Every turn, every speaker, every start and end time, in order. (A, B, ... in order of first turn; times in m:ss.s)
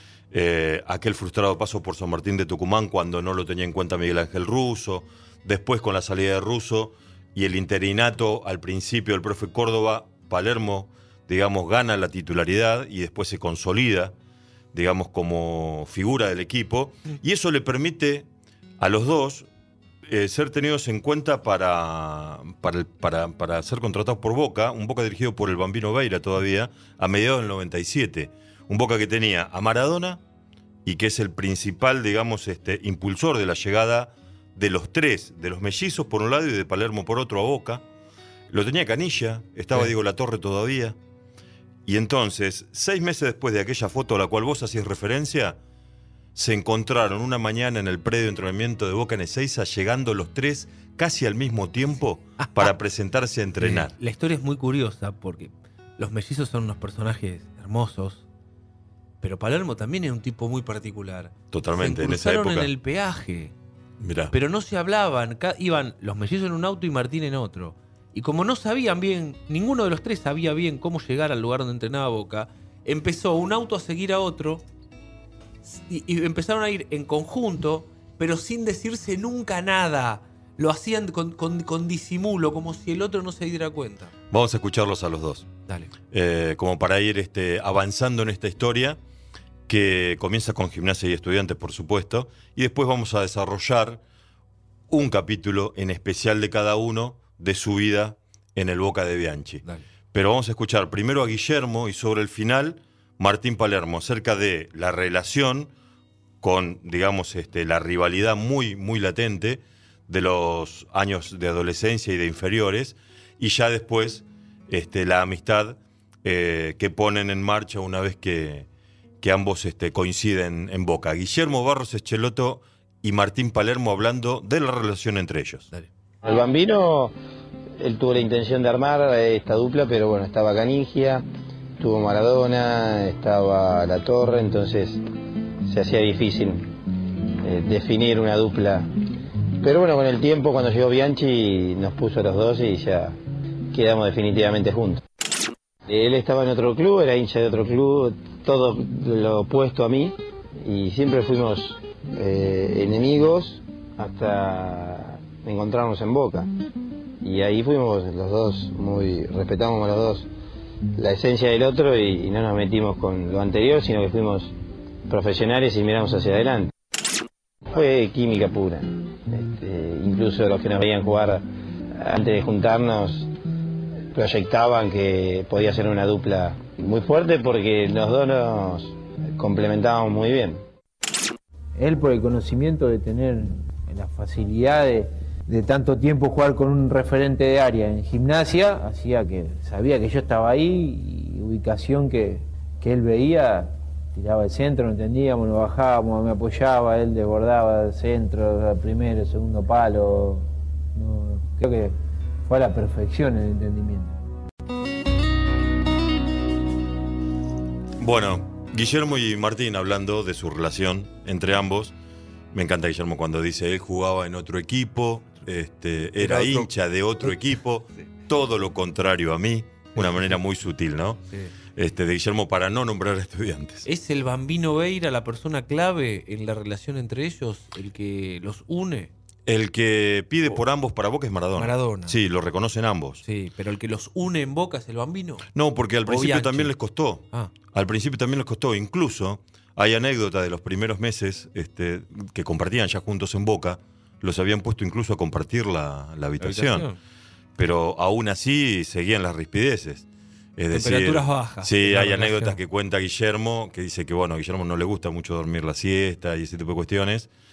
0:00.3-0:14.2 A
0:14.7-0:18.3 A
0:18.8-0:19.5 A
0:20.0-0:30.2 A
0:30.8-0:37.8 A
0:38.5-0:41.0 A
0:41.9-0:45.6 A
0:46.4-0:53.9 A
0:52.4-0:52.7 B
0:53.6-0:58.2 B
0:59.2-1:03.5 B
1:01.5-1:02.7 A
1:04.0-1:04.3 A
1:04.3-1:14.6 B
1:15.7-1:24.1 B
1:24.3-1:25.5 A
1:26.1-1:29.0 A
1:29.7-1:34.0 A
1:34.9-1:45.7 A
1:46.4-1:58.7 A
1:59.2-2:05.7 A
2:06.2-2:07.1 C
2:07.8-2:11.3 C
2:11.8-2:15.0 C
2:15.7-2:16.8 C
2:17.4-2:18.9 C
2:19.6-2:23.2 C
2:23.7-2:25.0 C
2:25.9-2:36.5 C
2:37.2-2:40.3 C
2:41.0-2:44.6 C
2:45.1-2:46.7 C
2:47.7-2:51.4 C
2:52.0-2:53.3 C
2:54.1-3:00.6 C
3:01.8-3:21.9 D
3:22.5-3:24.2 D
3:28.0-3:32.0 A
3:32.5-3:41.2 A
3:36.2-3:36.7 B
3:40.0-3:40.4 B
3:41.8-3:43.9 A
3:43.9-3:49.1 B
3:49.5-3:53.2 A
3:51.6-3:52.2 B
3:53.2-3:55.5 B
3:55.6-4:06.9 A
3:56.0-3:56.7 B
4:06.4-4:07.0 B
4:07.6-4:17.3 A
4:10.7-4:12.6 B